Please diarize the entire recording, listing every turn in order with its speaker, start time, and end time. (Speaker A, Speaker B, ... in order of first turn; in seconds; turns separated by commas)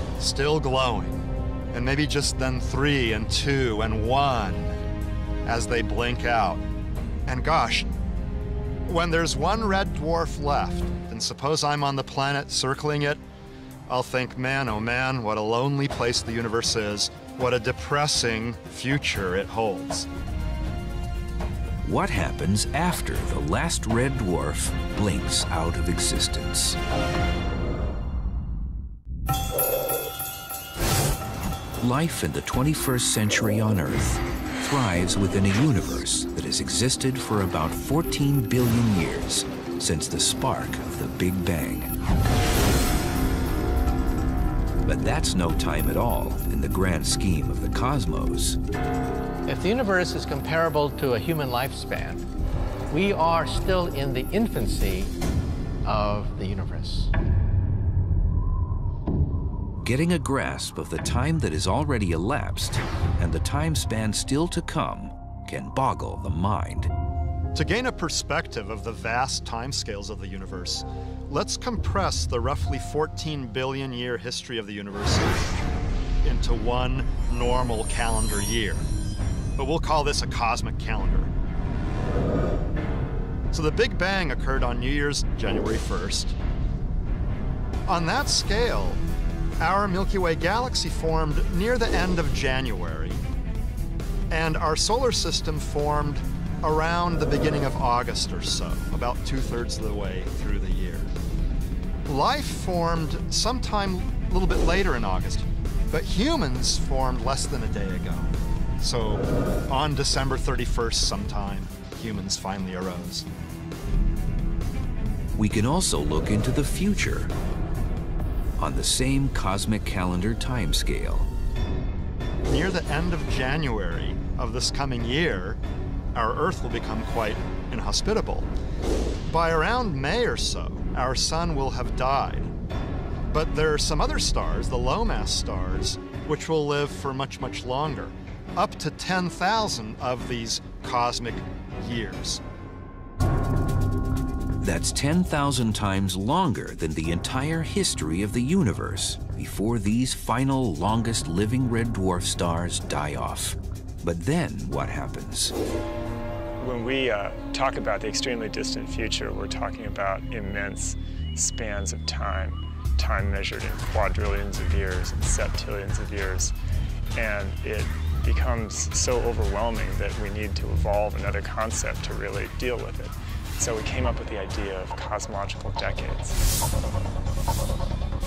Speaker A: 0.2-4.8, Speaker A: 5.4-6.6, Speaker A: 7.2-7.9, Speaker A: 8.9-13.2, Speaker A: 13.9-20.1, Speaker B: 21.8-26.8, Speaker B: 31.8-41.9, Speaker B: 44.9-48.6, Speaker C: 49.4-52.2, Speaker C: 52.9-55.1, Speaker C: 55.8-57.1, Speaker B: 59.8-66.9, Speaker A: 67.5-75.4, Speaker A: 76.2-78.8, Speaker A: 79.6-81.3, Speaker A: 83.5-86.3, Speaker A: 87.9-89.0, Speaker A: 89.6-93.2, Speaker A: 94.3-101.1, Speaker A: 102.1-113.2, Speaker B: 115.3-117.3, Speaker B: 118.6-121.3, Speaker A: 122.4-125.6, Speaker A: 126.1-128.5, Speaker A: 129.3-132.5, Speaker A: 133.3-142.4, Speaker B: 144.6-155.5, Speaker D: 156.6-166.5, Speaker D: 167.2-176.4